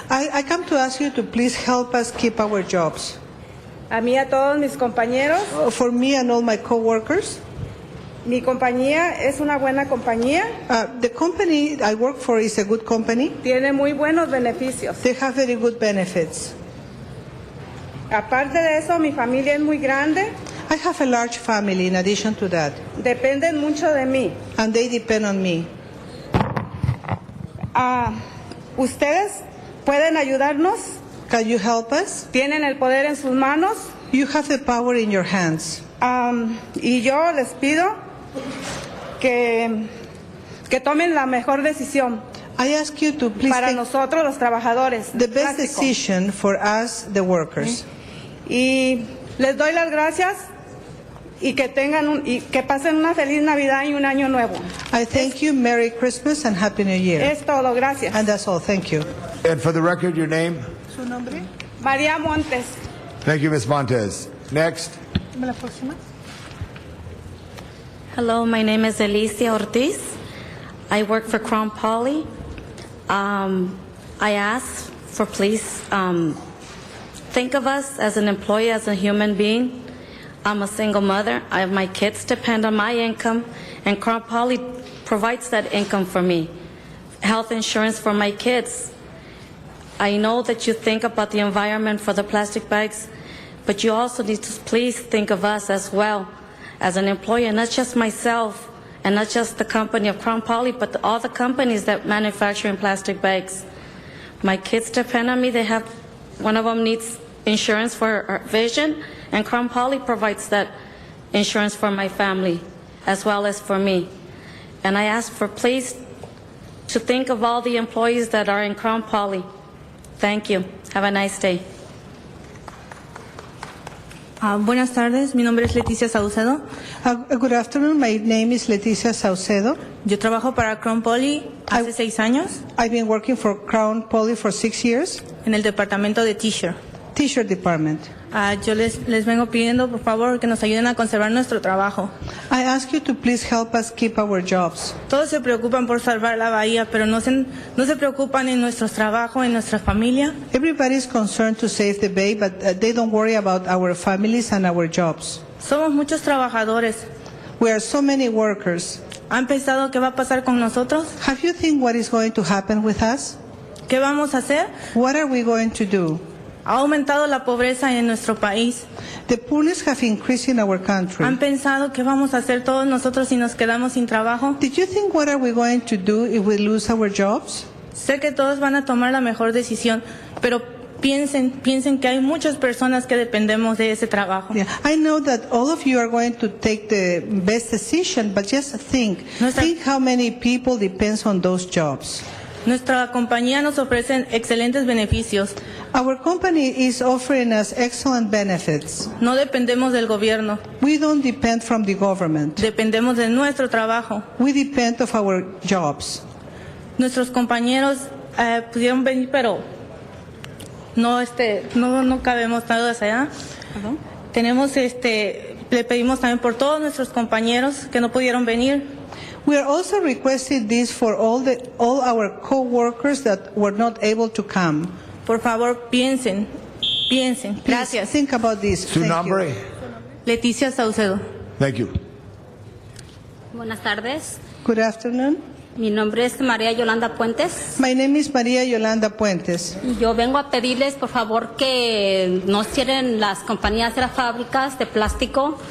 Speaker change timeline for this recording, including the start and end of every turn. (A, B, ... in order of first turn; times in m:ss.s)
0:00.1-0:03.2 A
0:03.9-0:05.5 B
0:05.5-0:07.4 A
0:08.2-0:10.5 B
0:10.7-0:13.4 A
0:13.4-0:15.0 B
0:15.0-0:16.5 A
0:18.1-0:20.3 B
0:20.7-0:22.8 A
0:23.0-0:24.4 B
0:24.6-0:25.7 A
0:27.7-0:28.1 B
0:28.8-0:30.8 B
0:31.3-0:32.3 A
0:32.3-0:33.9 B
0:34.1-0:35.8 A
0:36.0-0:37.9 B
0:39.2-0:39.9 B
0:40.7-0:42.2 B
0:42.6-0:43.8 A
0:43.4-0:45.9 B
0:45.1-0:47.8 A
0:48.4-0:50.4 B
0:51.4-0:54.7 B
0:54.9-0:57.3 A
0:57.2-0:58.2 B
0:58.1-0:59.1 A
0:59.4-1:00.6 C
1:00.9-1:01.4 A
1:01.8-1:02.7 B
1:03.2-1:05.0 C
1:05.4-1:06.0 A
1:08.1-1:10.1 D
1:10.9-1:12.2 D
1:13.1-1:16.4 D
1:17.3-1:19.9 D
1:20.4-1:26.5 D
1:27.2-1:28.9 D
1:30.0-1:33.1 D
1:33.6-1:43.6 D
1:44.4-1:45.9 D
1:46.4-1:50.7 D
1:51.3-1:54.1 D
1:54.8-1:56.0 D
1:56.9-1:59.4 D
2:00.2-2:01.6 D
2:04.4-2:06.6 E
2:07.0-2:09.8 A
2:10.0-2:12.6 E
2:12.7-2:15.2 A
2:15.4-2:16.8 E
2:17.1-2:18.1 A
2:18.3-2:22.1 E
2:22.5-2:25.0 A
2:25.1-2:30.3 E
2:30.5-2:35.4 A
2:35.6-2:37.0 E
2:37.6-2:39.0 A
2:39.3-2:41.1 E
2:41.2-2:43.4 A
2:43.9-2:44.7 E
2:44.9-2:46.2 A
2:46.6-2:48.8 E
2:49.3-2:51.4 A
2:51.2-2:54.6 E
2:54.6-2:57.6 A
2:57.9-3:04.6 E
3:04.5-3:12.2 A
3:09.4-3:09.7 E
3:12.6-3:15.6 E
3:15.9-3:19.1 A
3:19.2-3:20.6 E
3:20.8-3:22.6 A
3:22.6-3:24.2 E
3:24.4-3:26.2 A
3:27.0-3:29.6 E
3:30.9-3:33.3 E
3:34.3-3:38.9 E
3:39.4-3:44.9 A
3:45.2-3:46.5 E
3:47.1-3:48.1 E
3:47.6-3:49.5 A
3:48.9-3:49.5 C
3:50.2-3:51.2 E
3:51.6-3:52.0 C
3:53.5-3:54.4 F
3:54.6-3:55.4 A
3:55.8-3:57.7 F
3:57.8-3:59.8 A
3:59.8-4:05.6 F